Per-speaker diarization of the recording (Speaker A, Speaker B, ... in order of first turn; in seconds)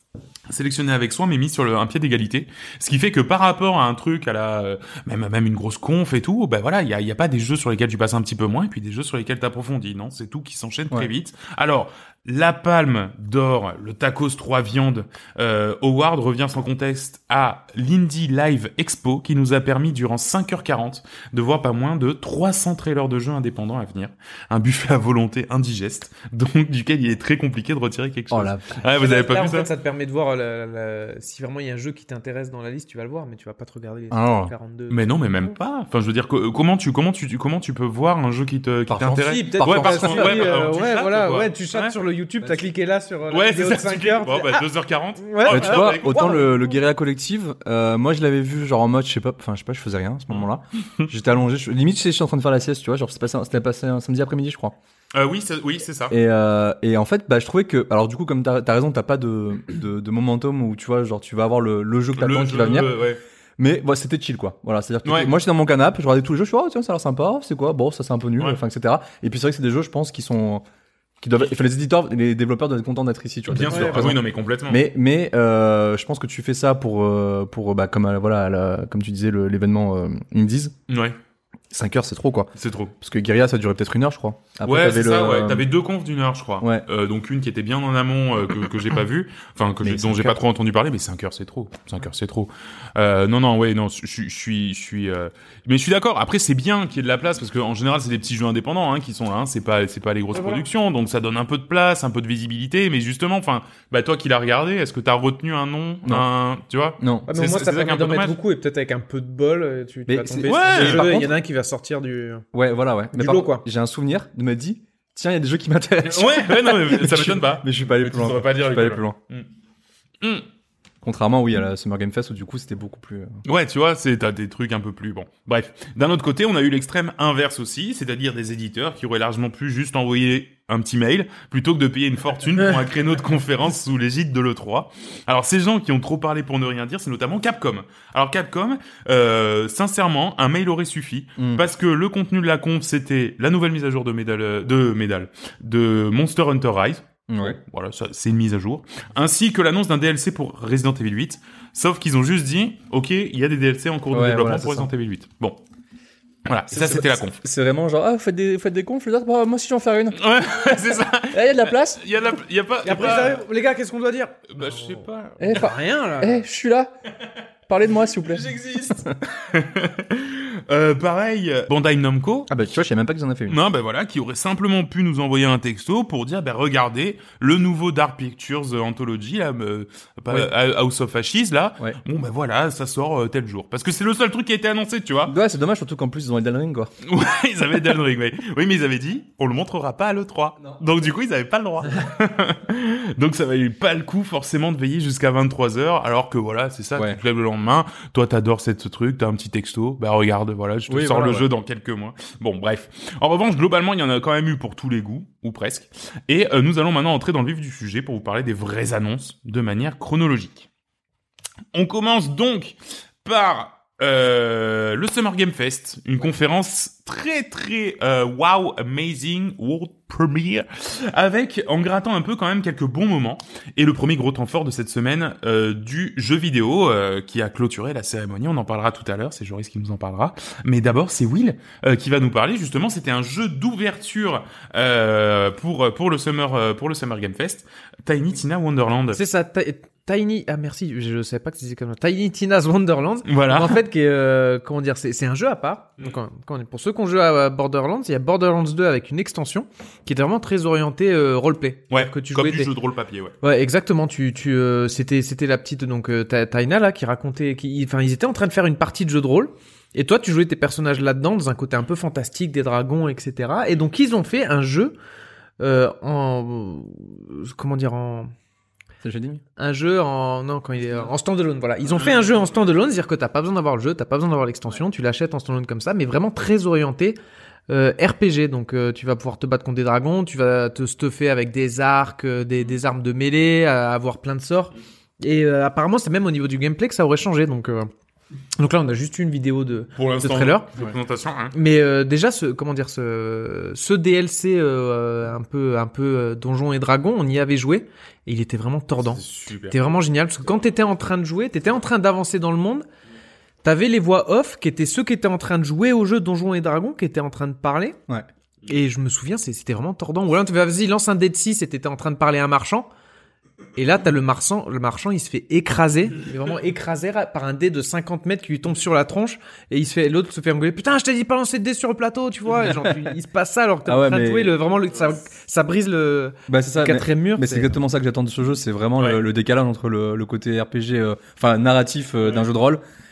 Speaker A: 0.5-29.7, 34.9-42.0, 43.3-46.5, 50.3-51.1, 55.1-56.2, 62.1-63.2, 65.0-65.3, 73.5-74.8, 80.9-81.2, 82.5-82.9, 84.6-108.4, 110.4-111.2, 116.0-119.5, 123.4-155.6, 156.4-157.4, 160.1-163.4, 164.5-165.7, 168.2-172.5, 173.5-185.3, 187.0-210.7, 211.7-239.2, 243.2-243.8, 251.9-253.3, 289.9-291.5, 298.9-300.0
Speaker B: 28.3-28.6, 34.1-34.5, 38.9-40.5, 45.5-54.8, 56.1-63.0, 63.6-70.6, 71.2-80.7, 81.7-85.7, 89.8-90.4, 107.0-107.3, 110.1-111.3, 112.5-119.2, 121.0-123.4, 141.4-141.6, 147.3-147.6, 154.1-154.9, 156.7-162.0, 165.4-166.9, 167.7-169.1, 172.5-173.6, 185.3-186.9, 200.9-201.5, 269.0-269.4, 323.9-324.5, 326.5-332.8
Speaker C: 28.9-35.5, 39.0-44.6, 45.2-46.4, 73.7-74.1, 100.3-100.6, 107.3-112.4, 113.1-113.6, 162.8-166.4, 239.1-252.7, 253.4-264.9, 265.6-268.3, 269.6-277.2, 277.7-287.9, 288.6-290.7, 291.5-302.9, 303.6-308.0, 308.6-312.9, 313.8-327.7